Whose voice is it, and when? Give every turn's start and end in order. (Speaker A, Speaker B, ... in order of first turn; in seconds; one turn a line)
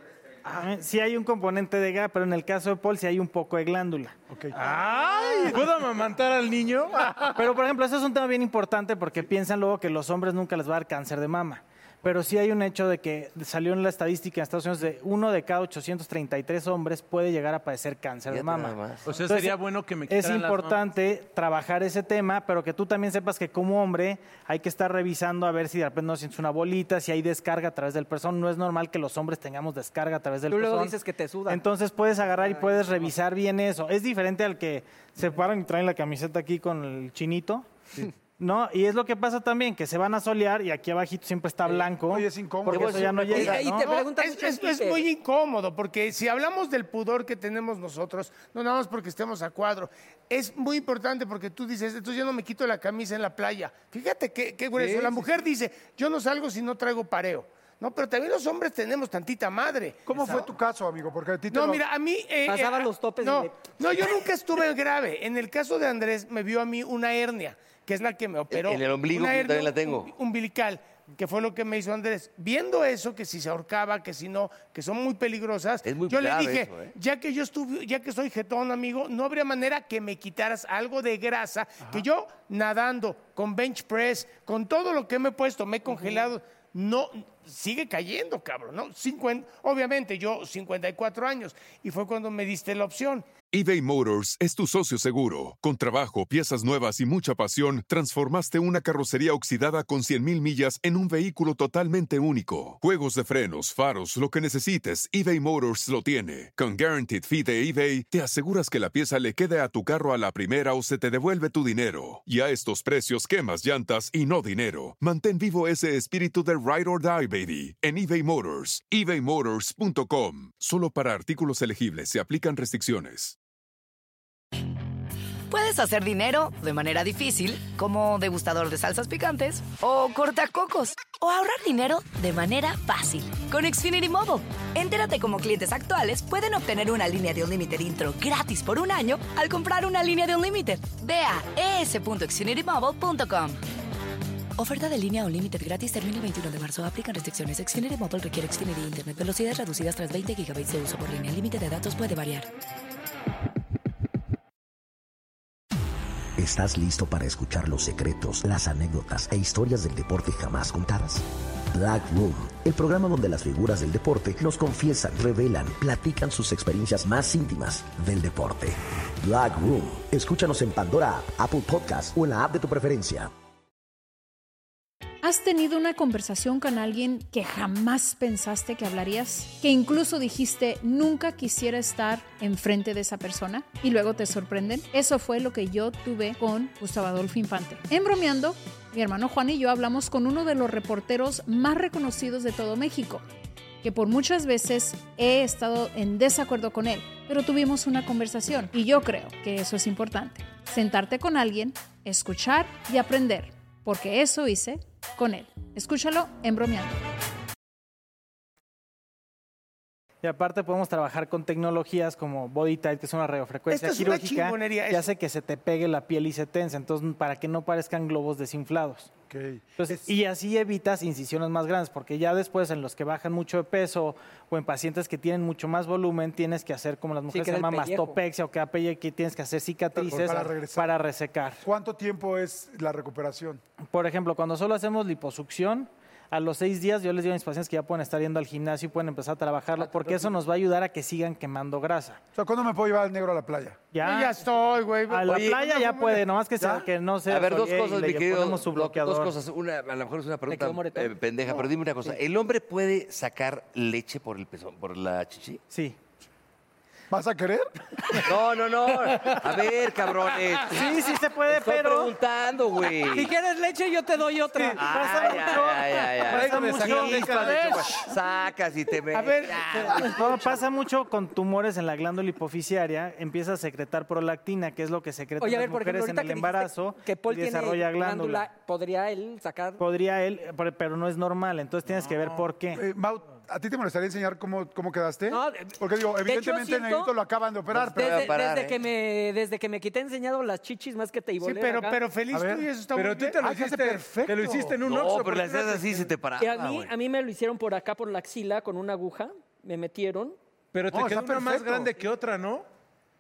Speaker A: 0.5-4.2
Speaker B: 4.5-7.4
Speaker A: 5.2-5.6
Speaker A: 7.3-30.9
Speaker C: 18.3-19.1
Speaker B: 19.1-20.8
Speaker D: 30.5-31.6
Speaker A: 31.5-43.9
Speaker D: 32.3-33.1
Speaker E: 42.0-43.5
Speaker C: 42.7-43.6
Speaker D: 43.3-45.0
Speaker F: 43.6-60.0
Speaker B: 54.8-55.2
Speaker E: 60.1-61.8
Speaker F: 61.5-93.3
Speaker D: 62.5-63.7
Speaker C: 68.5-70.1
Speaker C: 75.8-76.9
Speaker G: 93.5-123.4
Speaker H: 125.5-143.6
Speaker H: 144.6-152.5
Speaker I: 156.4-173.3
Speaker J: 175.2-193.2
Speaker J: 193.8-207.0
Speaker A: 210.2-219.1
Speaker F: 213.7-215.1
Speaker E: 219.3-220.0
Speaker A: 219.8-231.6
Speaker D: 227.3-228.2
Speaker E: 229.9-231.0
Speaker E: 231.6-233.6
Speaker A: 233.9-242.2
Speaker E: 242.4-243.8
Speaker A: 243.9-244.4
Speaker F: 244.0-246.2
Speaker A: 245.1-249.3
Speaker C: 245.3-245.7
Speaker E: 246.6-246.9
Speaker C: 247.3-255.6
Speaker D: 250.5-251.1
Speaker A: 255.7-256.0
Speaker E: 257.1-258.3
Speaker C: 258.2-263.3
Speaker A: 260.7-262.1
Speaker D: 263.1-267.7
Speaker C: 264.8-270.5
Speaker A: 264.8-267.1
Speaker B: 266.2-268.0
Speaker F: 269.1-270.0
Speaker A: 270.0-278.4
Speaker D: 275.4-279.8
Speaker A: 279.8-282.8
Speaker B: 281.9-282.4
Speaker E: 282.7-288.3
Speaker D: 285.3-287.1
Speaker D: 287.8-292.0
Speaker C: 287.9-288.8
Speaker F: 291.4-293.4
Speaker E: 292.3-292.7
Speaker B: 292.9-296.1
Speaker E: 293.4-294.8
Speaker C: 294.8-296.9
Speaker D: 296.4-300.4
Speaker B: 300.7-302.6
Speaker E: 300.9-301.9